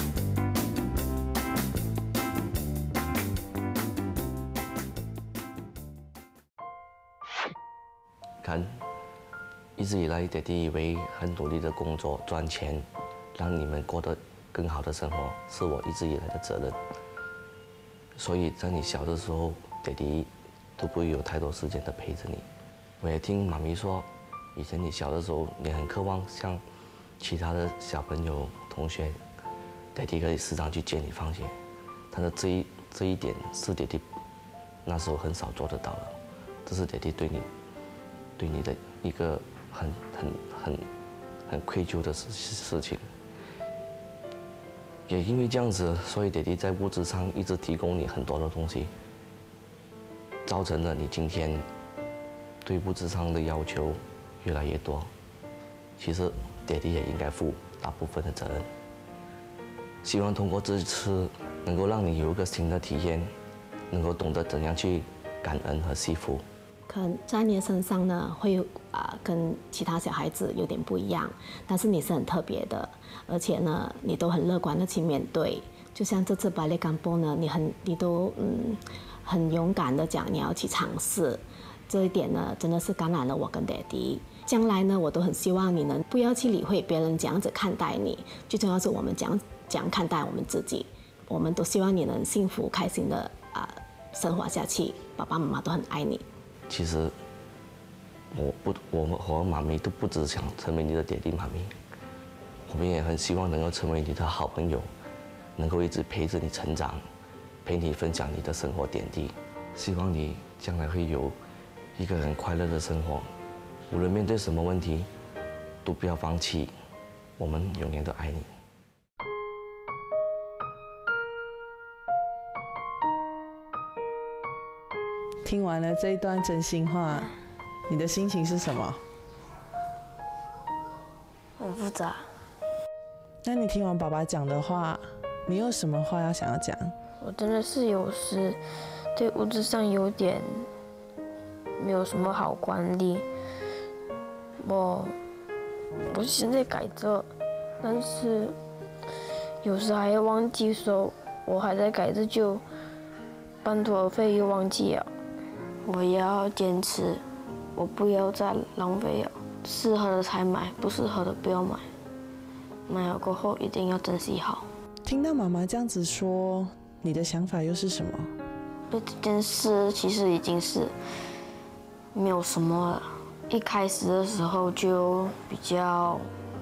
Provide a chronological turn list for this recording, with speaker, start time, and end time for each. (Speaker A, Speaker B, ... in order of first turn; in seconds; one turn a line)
Speaker A: 8.4-8.8
Speaker A: 9.8-16.8
Speaker A: 18.2-22.4
Speaker A: 23.0-26.6
Speaker A: 27.2-29.2
Speaker A: 29.9-31.6
Speaker A: 32.1-34.0
Speaker A: 34.9-36.1
Speaker A: 36.7-37.5
Speaker A: 38.4-40.9
Speaker A: 41.5-43.1
Speaker A: 45.1-48.9
Speaker A: 50.5-51.6
Speaker A: 52.6-55.1
Speaker A: 56.0-58.7
Speaker A: 60.0-63.3
Speaker A: 63.9-66.5
Speaker B: 66.9-96.2
Speaker A: 96.7-97.2
Speaker A: 98.3-101.7
Speaker A: 102.7-104.9
Speaker A: 105.6-107.0
Speaker A: 107.7-111.4
Speaker A: 112.0-113.3
Speaker A: 113.9-115.1
Speaker A: 115.8-116.7
Speaker A: 117.4-118.5
Speaker C: 125.5-127.3
Speaker C: 127.9-129.0
Speaker D: 131.6-132.3
Speaker C: 133.4-136.9
Speaker D: 137.2-138.6
Speaker D: 139.2-140.7
Speaker D: 141.8-143.2
Speaker D: 144.6-145.2
Speaker D: 146.1-147.3
Speaker D: 147.8-148.6
Speaker D: 149.6-152.6
Speaker D: 153.6-155.1
Speaker D: 155.8-157.2
Speaker D: 157.8-161.9
Speaker D: 162.9-164.7
Speaker C: 165.1-168.3
Speaker D: 168.9-170.9
Speaker D: 172.1-176.3